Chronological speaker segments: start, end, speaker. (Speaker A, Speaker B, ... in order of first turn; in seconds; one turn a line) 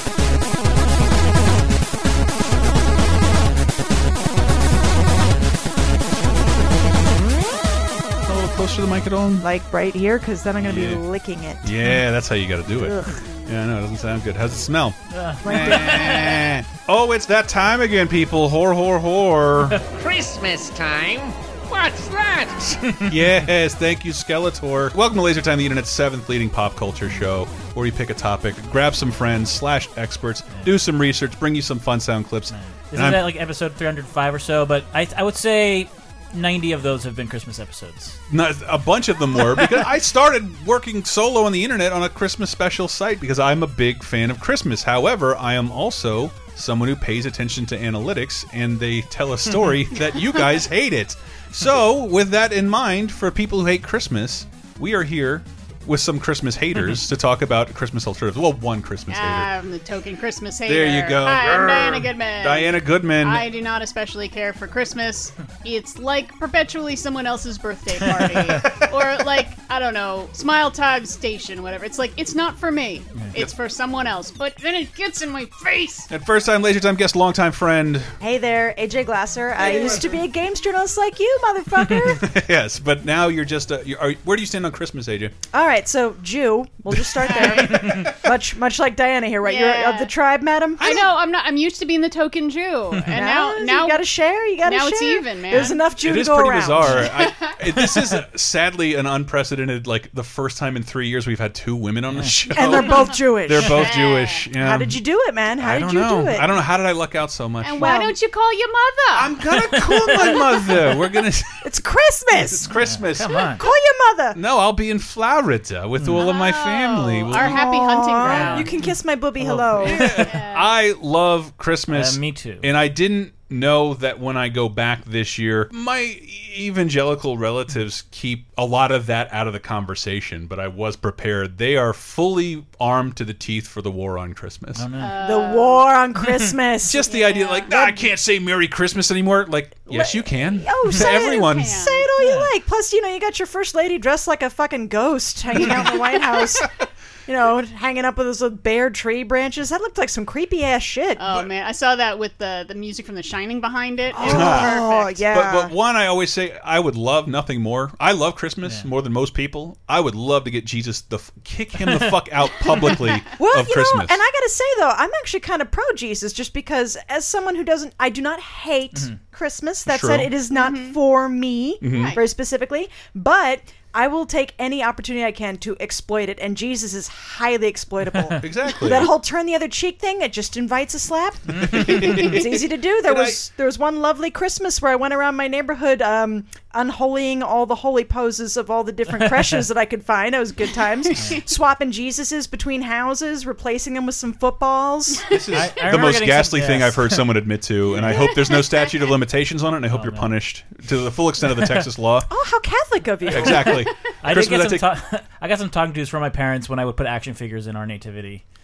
Speaker A: 8.3-9.5
Speaker B: 9.4-11.7
Speaker A: 10.6-11.0
Speaker A: 11.6-19.8
Speaker C: 15.1-16.4
Speaker B: 15.4-16.2
Speaker D: 19.9-22.8
Speaker A: 23.1-33.2
Speaker C: 23.1-23.4
Speaker C: 32.5-38.2
Speaker A: 38.3-59.5
Speaker E: 59.1-76.1
Speaker A: 60.7-63.5
Speaker C: 68.2-68.6
Speaker A: 76.1-78.1
Speaker B: 78.2-82.2
Speaker A: 82.2-85.3
Speaker B: 85.5-91.0
Speaker E: 87.2-87.7
Speaker A: 87.7-88.1
Speaker E: 89.4-90.1
Speaker E: 90.8-94.0
Speaker B: 93.1-97.1
Speaker E: 94.6-95.8
Speaker A: 96.0-105.0
Speaker E: 97.0-97.5
Speaker C: 102.1-102.6
Speaker B: 102.5-103.9
Speaker E: 103.7-104.4
Speaker B: 104.6-106.5
Speaker A: 105.6-107.9
Speaker E: 107.6-109.3
Speaker B: 107.8-108.1
Speaker A: 109.1-111.5
Speaker C: 109.7-110.5
Speaker B: 111.6-112.7
Speaker A: 112.5-113.4
Speaker C: 112.8-113.6
Speaker B: 113.6-114.4
Speaker A: 114.3-117.6
Speaker C: 116.0-116.3
Speaker E: 116.2-118.7
Speaker B: 117.3-120.1
Speaker C: 118.2-118.8
Speaker C: 119.4-120.3
Speaker A: 119.8-134.9
Speaker E: 120.2-120.7
Speaker C: 121.9-122.7
Speaker C: 134.8-135.2
Speaker E: 135.0-135.9
Speaker B: 135.2-137.1
Speaker A: 136.9-141.8
Speaker E: 137.1-137.7
Speaker B: 139.9-146.7
Speaker E: 141.2-142.0
Speaker C: 142.2-142.5
Speaker A: 145.6-146.0
Speaker B: 147.3-151.4
Speaker E: 151.2-155.2
Speaker B: 154.2-155.7
Speaker A: 154.2-154.8
Speaker A: 155.3-164.2
Speaker C: 158.6-158.9
Speaker C: 161.8-162.2
Speaker B: 163.4-195.2
Speaker A: 169.9-170.3
Speaker E: 170.5-171.0
Speaker A: 171.8-172.2
Speaker A: 178.4-179.1
Speaker A: 181.6-182.4
Speaker A: 183.1-183.4
Speaker C: 189.2-189.6
Speaker A: 195.3-202.3
Speaker C: 195.6-197.3
Speaker C: 197.9-198.2
Speaker C: 199.9-200.3
Speaker B: 202.3-203.8
Speaker A: 203.3-204.9
Speaker C: 204.2-208.4